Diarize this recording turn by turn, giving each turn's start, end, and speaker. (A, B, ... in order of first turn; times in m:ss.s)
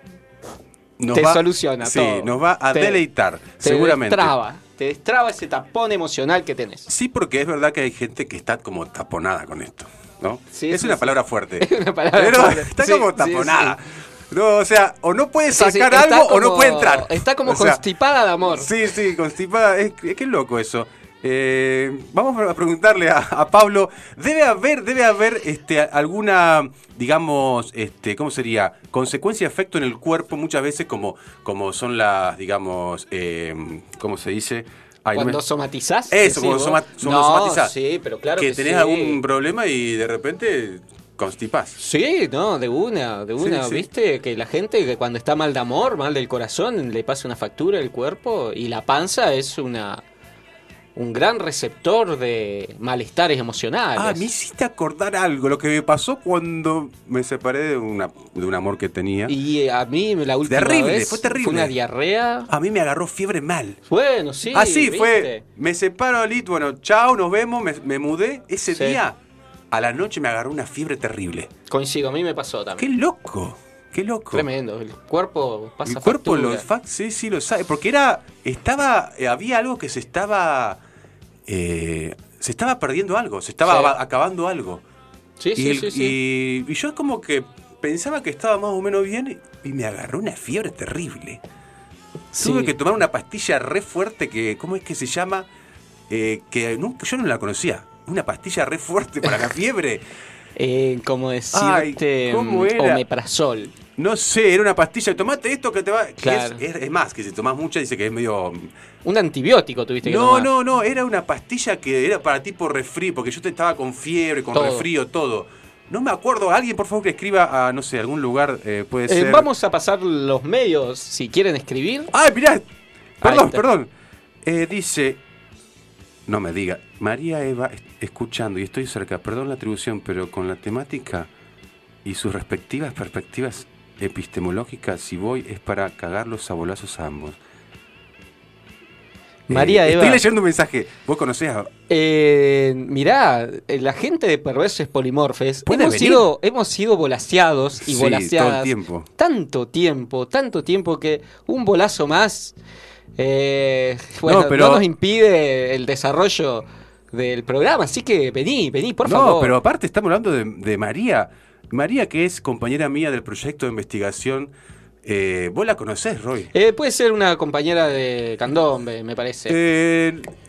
0:01.0-0:04.3 A
0:01.1-0:03.0 B
0:03.6-0:06.9 B
0:06.9-0:17.8 A
0:10.5-0:13.8 B
0:15.5-0:18.7 B
0:18.4-0:35.4 A
0:35.1-0:39.2 B
0:36.1-0:37.7 A
0:38.4-0:41.8 A
0:41.8-0:50.0 B
0:43.4-0:43.9 A
0:51.0-0:54.3 B
0:54.0-0:59.3 A
0:59.3-1:02.5 B
1:00.4-1:01.7 A
1:02.5-1:03.8 A
1:03.9-1:05.4 B
1:04.5-1:09.2 A
1:08.7-1:09.0 B
1:09.7-1:11.5 A
1:11.7-1:12.9 B
1:12.8-1:14.5 A
1:14.3-1:16.6 B
1:15.8-1:20.8 A
1:21.5-1:24.8 A
1:23.6-1:23.9 B
1:25.4-1:26.2 B
1:25.6-1:31.4 A
1:32.3-1:32.7 B
1:32.4-1:35.5 A
1:36.1-1:40.0 A
1:40.6-1:43.7 B
1:41.5-1:43.0 A
1:44.0-1:48.7 A
1:46.2-1:46.6 B
1:49.0-1:50.5 B
1:50.0-1:59.5 A
1:54.5-1:54.9 B
1:59.1-2:02.1 B
2:02.1-2:02.6 A
2:03.2-2:03.9 A
2:03.2-2:03.6 B
2:04.4-2:05.2 A
2:06.3-2:11.3 A
2:12.0-2:17.4 A
2:19.5-2:20.2 B
2:19.5-2:21.7 A
2:21.9-2:32.6 B
2:25.6-2:26.3 A
2:27.8-2:29.1 A
2:33.2-2:39.6 B
2:34.2-2:34.9 A
2:39.0-2:44.5 A
2:45.0-2:46.5 A
2:46.5-2:49.6 B
2:49.5-2:50.3 A